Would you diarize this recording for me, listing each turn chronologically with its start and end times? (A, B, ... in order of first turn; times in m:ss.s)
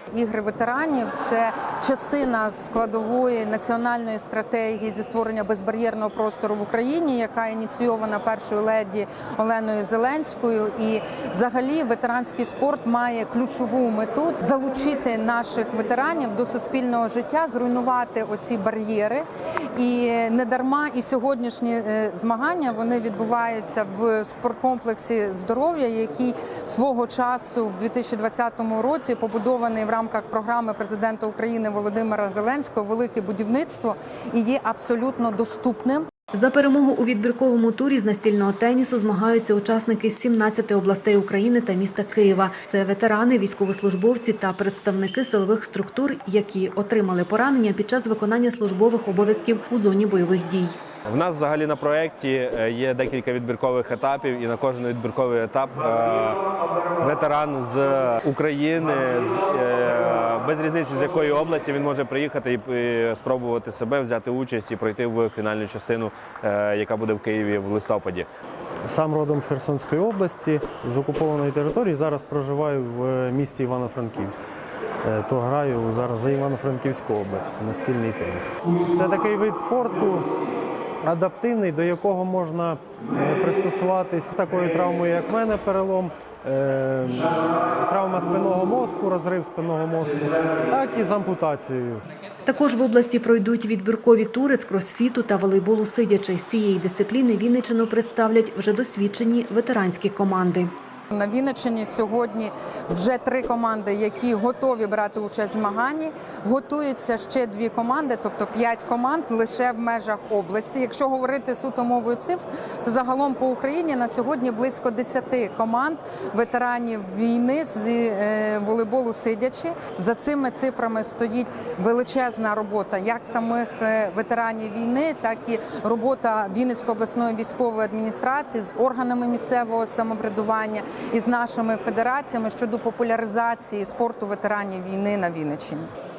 0:00.1-0:36.1 A
0:36.3-0:50.8 B
0:51.1-0:56.4 C
0:57.0-1:08.3 C
1:08.9-1:14.4 D
1:15.0-1:20.3 D
1:21.0-1:32.0 D
1:32.4-1:40.7 B
1:41.1-2:15.9 A